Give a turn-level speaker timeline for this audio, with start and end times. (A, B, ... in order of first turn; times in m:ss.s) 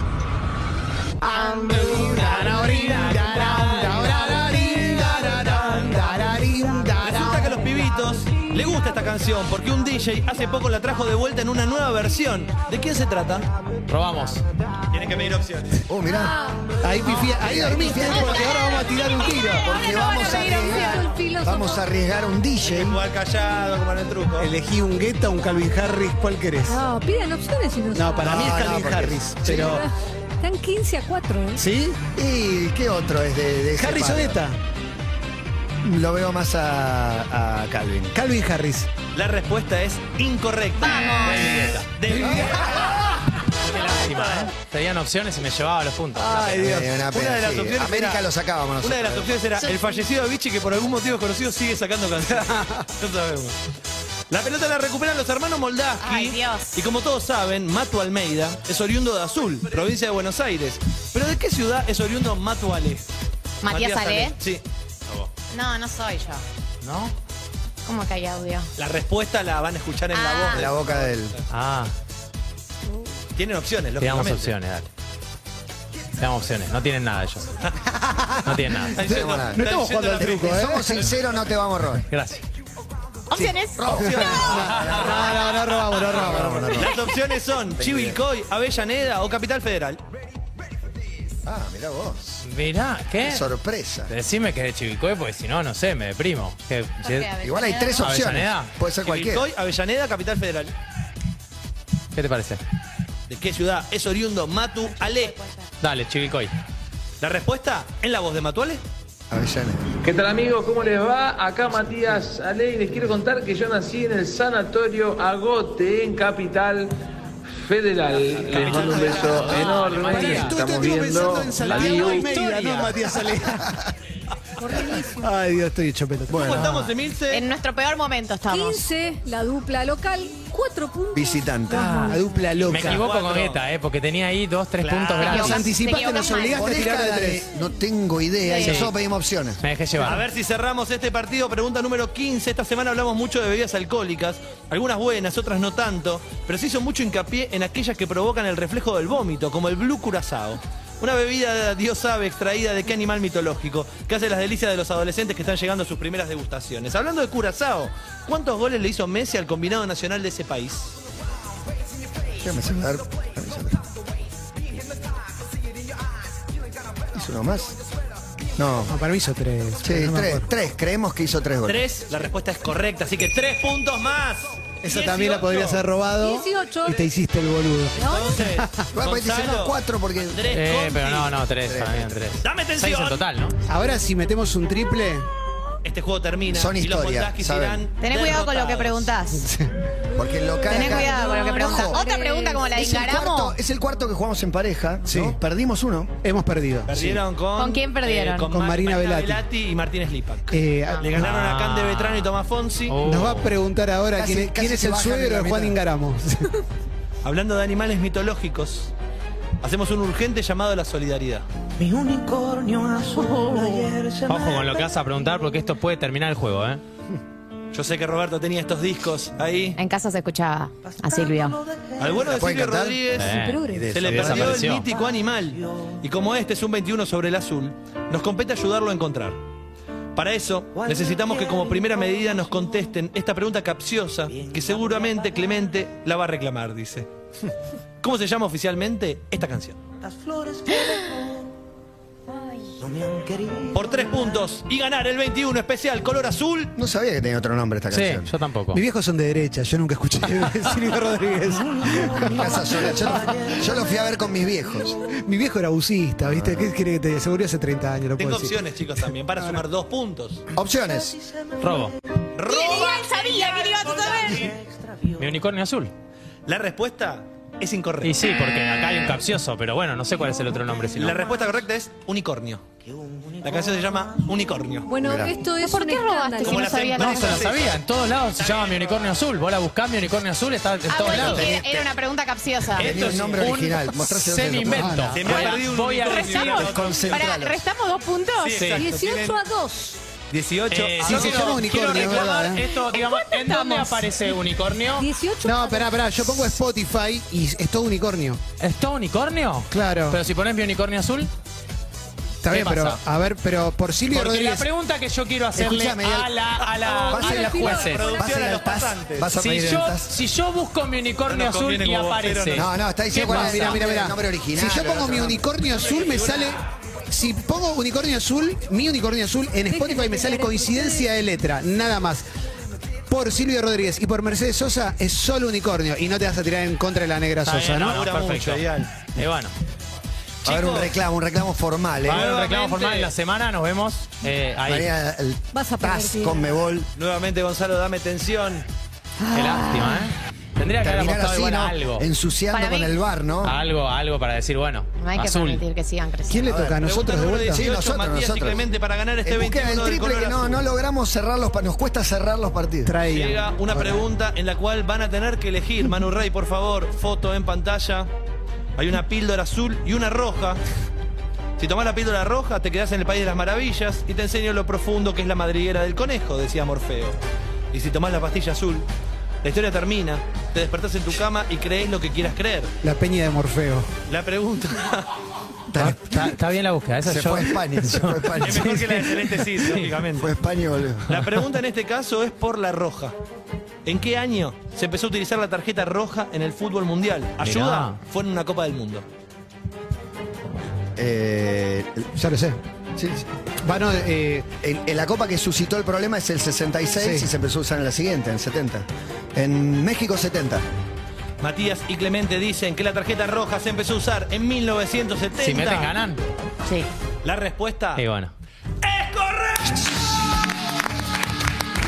0:01.2-0:07.7 A
0:07.0-0:13.5 B
0:13.9-0:14.4 C
0:14.9-0:15.8 B
0:15.9-0:16.4 D
0:16.1-0:16.7 E
0:16.8-0:19.7 A
0:17.0-0:18.6 D
0:18.0-0:21.8 E
0:19.6-0:23.0 D
0:22.6-0:24.5 B
0:24.4-0:26.8 A
0:26.7-0:28.5 E
0:27.9-0:29.8 A
0:28.2-0:29.8 D
0:28.2-0:29.2 B
0:29.4-0:31.6 E
0:31.6-0:32.0 A
0:32.1-0:34.4 D
0:33.8-0:34.6 A
0:35.8-0:38.1 D
0:38.1-0:38.9 A
0:39.1-0:44.5 B
0:40.8-0:41.6 F
0:41.2-0:41.9 C
0:42.1-0:42.5 A
0:43.7-0:46.7 C
0:46.1-0:46.9 A
0:46.6-0:49.4 D
0:47.1-0:48.2 B
0:48.8-0:53.6 B
0:52.3-0:52.8 A
0:54.3-1:03.0 B
0:56.0-0:56.8 F
1:03.6-1:04.4 F
1:03.7-1:04.6 B
1:05.5-1:06.4 F
1:06.8-1:07.1 C
1:07.8-1:08.7 F
1:08.8-1:11.4 B
1:10.1-1:10.6 F
1:10.5-1:11.4 D
1:11.5-1:11.9 C
1:13.4-1:14.5 B
1:14.0-1:14.9 C
1:16.2-1:17.5 C
1:18.0-1:18.6 A
1:18.4-1:19.0 C
1:18.9-1:20.6 B
1:19.0-1:22.0 D
1:19.5-1:21.0 A
1:22.1-1:22.4 C
1:23.3-1:24.4 F
1:23.3-1:27.0 D
1:23.9-1:25.0 B
1:23.9-1:26.8 A
1:26.7-1:30.0 B
1:27.8-1:28.2 D
1:31.4-1:32.3 D
1:32.4-1:33.4 C
1:33.2-1:34.1 D
1:34.1-1:37.3 C
1:37.0-1:38.2 F
1:37.4-1:39.5 D
1:38.0-1:38.7 C
1:39.0-1:40.7 B
1:42.1-1:42.6 C
1:43.3-1:45.3 B
1:44.9-1:45.7 F
1:45.8-1:46.5 C
1:47.2-1:48.8 B
1:49.3-1:49.9 D
1:50.0-1:56.9 G
1:57.5-2:02.3 G
1:58.4-1:59.9 B
1:58.5-2:00.7 C
1:59.9-2:03.8 A
2:01.5-2:03.1 C
2:04.6-2:05.3 E
2:04.7-2:06.6 A
2:06.3-2:06.9 D
2:06.3-2:07.4 B
2:06.5-2:06.9 C
2:07.3-2:08.9 F
2:08.5-2:12.4 E
2:11.1-2:12.1 D
2:11.7-2:12.1 C
2:11.7-2:13.0 A
2:12.6-2:13.6 B
2:12.6-2:15.7 C
2:14.8-2:15.3 B
2:15.2-2:16.7 F
2:15.2-2:17.4 A
2:16.5-2:19.6 D
2:18.4-2:18.9 F
2:19.6-2:20.2 C
2:20.0-2:40.9 B
2:42.4-2:43.8 D
2:47.1-2:47.8 D
2:48.6-2:49.0 D
2:48.9-2:50.5 A
2:49.8-2:51.8 D
2:51.6-2:55.8 B
2:54.8-2:58.9 A
2:56.2-2:57.1 E
2:58.0-3:01.3 B
2:58.0-2:58.4 E
2:58.9-3:00.5 D
3:00.5-3:03.6 C
3:01.6-3:02.3 D
3:02.4-3:03.2 B
3:03.7-3:05.3 A
3:05.8-3:09.1 B
3:06.5-3:07.8 D
3:08.0-3:09.4 F
3:09.3-3:09.7 A
3:10.1-3:12.0 D
3:10.7-3:12.7 E
3:10.7-3:13.6 F
3:12.8-3:16.1 D
3:15.0-3:15.4 A
3:16.2-3:17.2 A
3:16.9-3:23.0 B
3:17.6-3:18.5 F
3:18.5-3:19.4 A
3:20.5-3:21.4 A
3:21.2-3:22.3 C
3:22.9-3:23.6 C
3:23.0-3:26.5 A
3:24.1-3:25.8 D
3:27.2-3:28.9 B
3:29.6-3:31.4 B
3:33.4-3:36.8 C
3:37.7-3:39.8 B
3:39.8-3:41.6 F
3:42.0-3:49.4 B
3:42.2-3:43.0 D
3:43.1-3:44.9 C
3:43.3-3:44.0 E
3:43.7-3:44.6 D
3:50.1-3:57.1 B
3:58.0-3:59.8 B
4:03.6-4:06.7 B
4:06.8-4:08.3 D
4:07.9-4:08.8 C
4:08.7-4:13.6 A
4:12.2-4:14.9 D
4:15.1-4:18.6 A
4:16.2-4:16.7 D
4:18.2-4:20.4 B
4:20.5-4:21.2 D
4:21.6-4:21.9 C
4:22.3-4:24.6 B
4:22.4-4:24.5 F
4:25.2-4:25.9 C
4:26.5-4:28.2 B
4:28.0-4:31.3 C
4:30.9-4:32.6 B
4:33.4-4:34.9 B
4:34.8-4:36.8 E
4:35.0-4:35.4 D
4:35.6-4:37.6 F
4:36.4-4:37.8 B
4:37.0-4:41.5 C
4:38.4-4:39.2 B
4:40.9-4:42.9 F
4:41.1-4:41.8 D
4:42.8-4:45.1 D
4:42.8-4:46.7 C
4:42.9-4:43.3 B
4:44.6-4:45.3 A
4:45.1-4:47.3 B
4:45.4-4:48.6 F
4:46.6-4:47.6 D
4:48.4-4:49.4 B
4:48.5-4:48.8 C
4:48.7-4:50.0 E
4:50.3-4:51.7 B
4:50.7-4:55.1 C
4:51.0-4:52.6 A
4:52.5-4:54.1 F
4:54.9-4:56.5 E
4:55.4-4:58.4 A
4:58.6-5:01.3 C
4:59.7-5:00.2 A
5:02.4-5:04.7 A
5:02.5-5:03.0 C
5:04.1-5:08.0 C
5:05.5-5:06.3 D
5:06.6-5:09.3 B
5:07.0-5:08.2 E
5:07.1-5:10.2 D
5:09.4-5:13.8 C
5:11.3-5:12.7 B
5:12.5-5:15.4 D
5:13.1-5:22.2 A
5:15.8-5:16.5 B
5:19.7-5:21.1 E
5:23.1-5:28.0 A
5:27.4-5:29.5 C
5:27.8-5:28.9 B
5:30.4-5:30.9 B
5:30.4-5:32.7 D
5:32.0-5:33.1 B
5:32.1-5:34.9 C
5:34.6-5:36.9 D
5:35.5-5:36.6 E
5:37.0-5:38.6 B
5:39.2-5:40.1 F
5:39.3-5:42.1 C
5:40.8-5:43.6 D
5:42.5-5:43.0 F
5:43.4-5:45.6 C
5:45.0-5:46.5 F
5:46.3-5:47.6 A
5:46.5-5:50.6 B
5:47.5-5:48.6 D
5:49.2-5:52.9 D
5:52.8-5:54.0 A
5:53.1-5:58.1 B
5:58.8-6:00.6 B
6:01.6-6:07.2 B
6:07.7-6:08.9 B
6:09.4-6:12.7 B
6:12.8-6:13.9 A
6:14.1-6:15.1 B
6:15.7-6:16.3 D
6:15.8-6:19.9 C
6:17.0-6:19.0 D
6:18.4-6:20.3 B
6:20.2-6:21.3 D
6:21.1-6:23.1 B
6:23.8-6:29.0 B
6:27.4-6:28.0 C
6:30.9-6:32.1 D
6:32.2-6:32.6 A
6:32.9-6:33.2 D
6:33.6-6:34.5 A
6:34.6-6:40.6 D
6:36.9-6:37.3 A
6:41.4-6:45.9 B
6:45.4-6:46.2 C
6:47.2-6:48.0 B
6:48.0-6:48.3 C
6:48.8-6:50.0 B